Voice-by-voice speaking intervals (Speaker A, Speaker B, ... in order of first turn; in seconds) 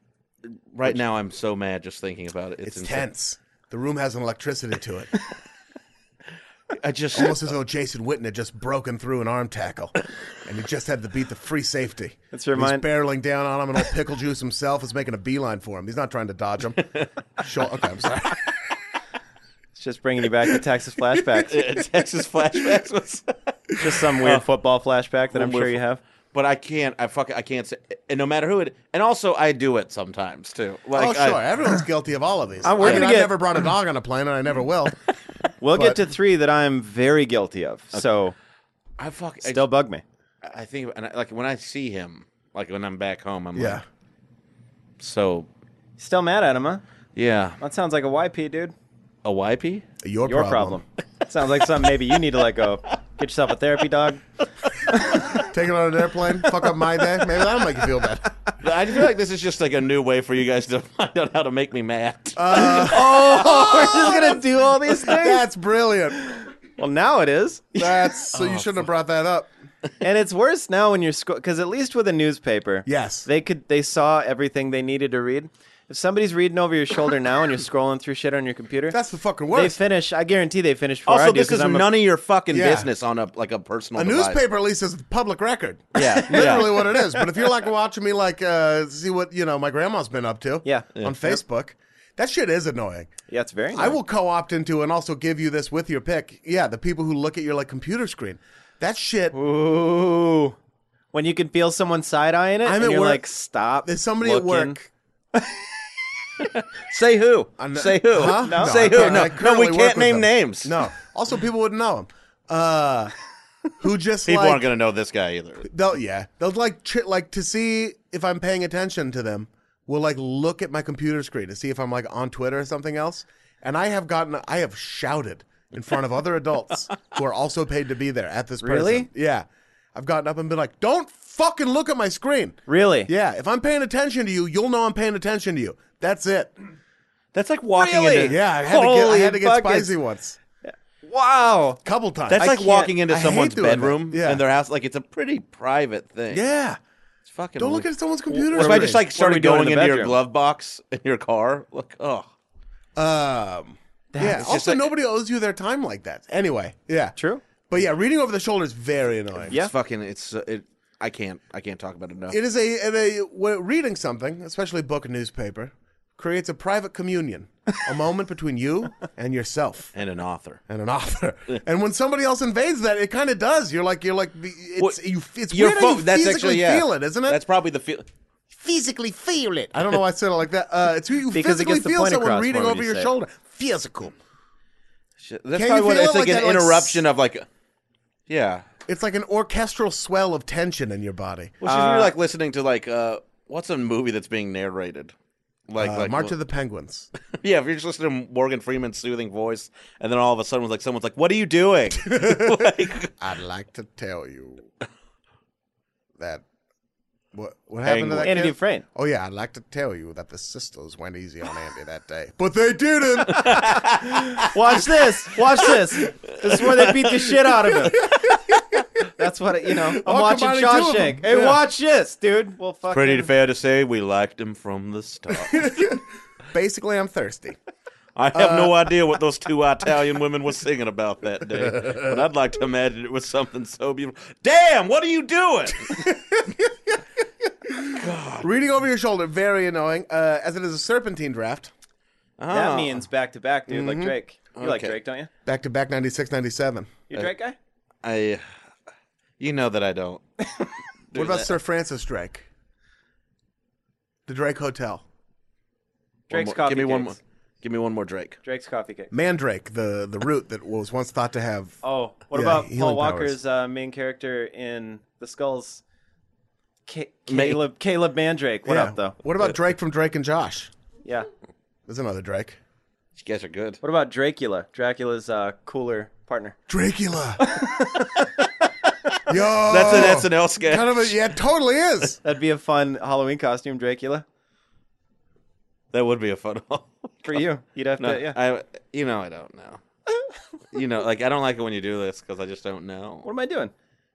Speaker A: 0.4-3.1, 6.8-7.5, 21.4-24.4, 25.3-25.8, 26.3-31.4, 39.0-39.7, 40.4-43.8, 45.0-45.5, 47.1-47.6, 49.2-49.9, 58.6-64.3, 68.3-68.8, 81.1-84.4, 86.0-86.8, 106.5-110.8, 114.2-115.7, 137.3-138.4, 142.3-146.4, 147.3-152.2, 154.3-154.9, 159.5-162.4, 169.9-170.6, 175.5-178.1, 185.2-187.4, 188.3-188.6, 191.6-195.1, 195.7-196.3, 197.4-203.1, 207.8-208.5, 213.3-214.3, 216.6-217.3, 222.9-225.8, 228.2-236.1, 237.9-238.5, 242.4-243.0, 244.5-244.9, 248.0-248.4, 249.4-250.4, 251.1-251.5, 256.3-258.4, 267.3-267.6, 273.2-273.8, 279.6-281.1, 285.9-287.4, 288.0-289.8, 290.7-293.3
Speaker B: 2.6-5.1, 7.1-16.8, 17.4-18.4, 30.9-35.0, 35.7-36.0, 43.5-43.8, 50.0-50.8, 55.4-58.3, 62.4-64.4, 64.9-66.3, 67.8-69.5, 72.8-73.3, 78.9-79.8, 82.5-82.9, 84.0-93.1, 93.7-99.3, 102.6-103.2, 103.8-104.9, 107.6-113.1, 113.8-114.7, 115.6-136.5, 138.2-140.4, 141.8-144.4, 146.3-146.8, 147.6-149.0, 152.9-157.1, 157.7-159.5, 162.3-169.9, 170.7-177.4, 178.5-184.1, 185.5-187.0, 188.9-192.0, 195.8-197.1, 202.0-204.7, 206.2-206.4, 207.3-213.8, 217.9-218.8, 220.0-221.6, 225.4-227.6, 228.3-228.8, 235.9-237.0, 237.6-241.7, 243.7-244.1, 245.4-247.0, 251.1-252.5, 254.2-255.0, 259.1-261.8, 262.3-263.4, 268.7-270.7, 271.9-272.6, 276.7-277.4, 279.3-282.2
Speaker C: 12.3-12.8, 19.8-21.5, 23.8-26.0, 32.6-33.4, 35.6-38.3, 39.4-40.0, 46.0-46.8, 47.6-48.7, 50.2-54.2, 54.9-55.3, 62.5-65.4, 66.8-68.2, 70.0-79.0, 79.5-81.9, 86.3-87.2, 90.6-91.4, 93.3-94.0, 99.3-100.6, 101.1-104.8, 105.3-105.6, 108.4-109.3, 128.6-129.1, 132.7-133.1, 137.7-139.9, 140.6-141.8, 142.4-142.9, 148.5-150.2, 154.1-154.6, 157.2-157.4, 181.3-183.1, 191.7-192.1, 208.2-208.8, 214.0-218.1, 219.2-223.3, 242.5-245.3, 247.1-247.6, 256.3-257.2, 258.4-259.1, 261.8-265.8, 266.9-269.1, 273.8-276.6, 277.4-278.3, 282.2-284.2, 287.2-288.4, 293.2-293.7